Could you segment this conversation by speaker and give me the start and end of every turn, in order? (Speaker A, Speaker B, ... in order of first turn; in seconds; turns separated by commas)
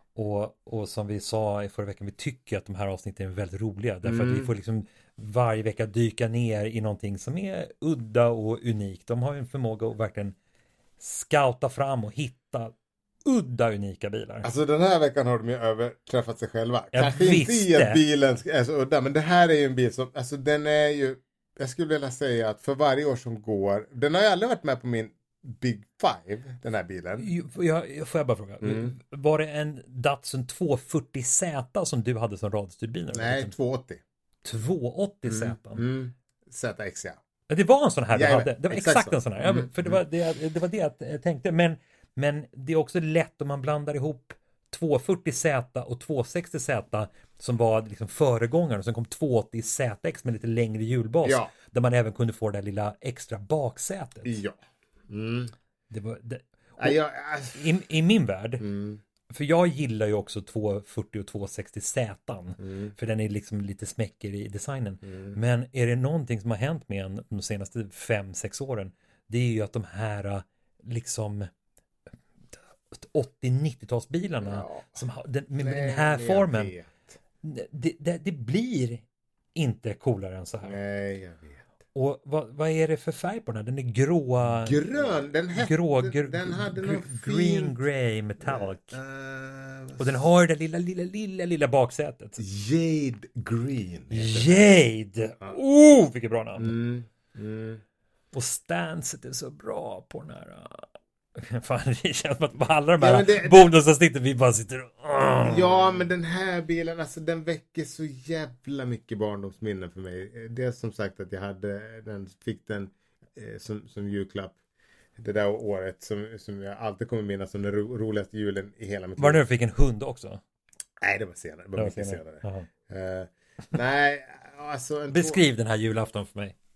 Speaker A: 0.1-10.3, Speaker B: 4.0-4.5, Speaker A: 11.0-14.5, Speaker B: 14.4-27.3, Speaker A: 16.9-18.0, Speaker A: 27.2-33.5, Speaker B: 28.6-28.9, Speaker B: 33.1-34.0, Speaker A: 34.4-35.8, Speaker B: 35.3-37.2, Speaker A: 37.5-54.4, Speaker B: 38.1-40.0, Speaker B: 51.2-51.5, Speaker B: 54.2-54.6, Speaker B: 55.1-55.5, Speaker A: 55.9-57.0, Speaker B: 56.8-57.6, Speaker A: 57.5-58.6, Speaker B: 58.6-59.0, Speaker A: 59.3-71.5, Speaker B: 62.6-62.9, Speaker B: 65.0-65.4, Speaker A: 72.9-76.7, Speaker B: 74.4-75.0, Speaker B: 75.6-77.0, Speaker A: 77.4-80.8, Speaker B: 80.6-81.6, Speaker A: 81.9-89.0, Speaker B: 84.4-87.8, Speaker B: 88.4-90.2, Speaker A: 90.0-92.4, Speaker B: 92.4-94.7, Speaker A: 94.1-96.7, Speaker B: 96.6-97.8, Speaker A: 98.3-100.9, Speaker A: 101.4-106.1, Speaker B: 103.0-103.7, Speaker B: 105.4-114.6, Speaker B: 115.2-119.4, Speaker A: 119.2-120.4, Speaker B: 121.0-125.4, Speaker A: 121.8-122.7, Speaker A: 125.1-126.5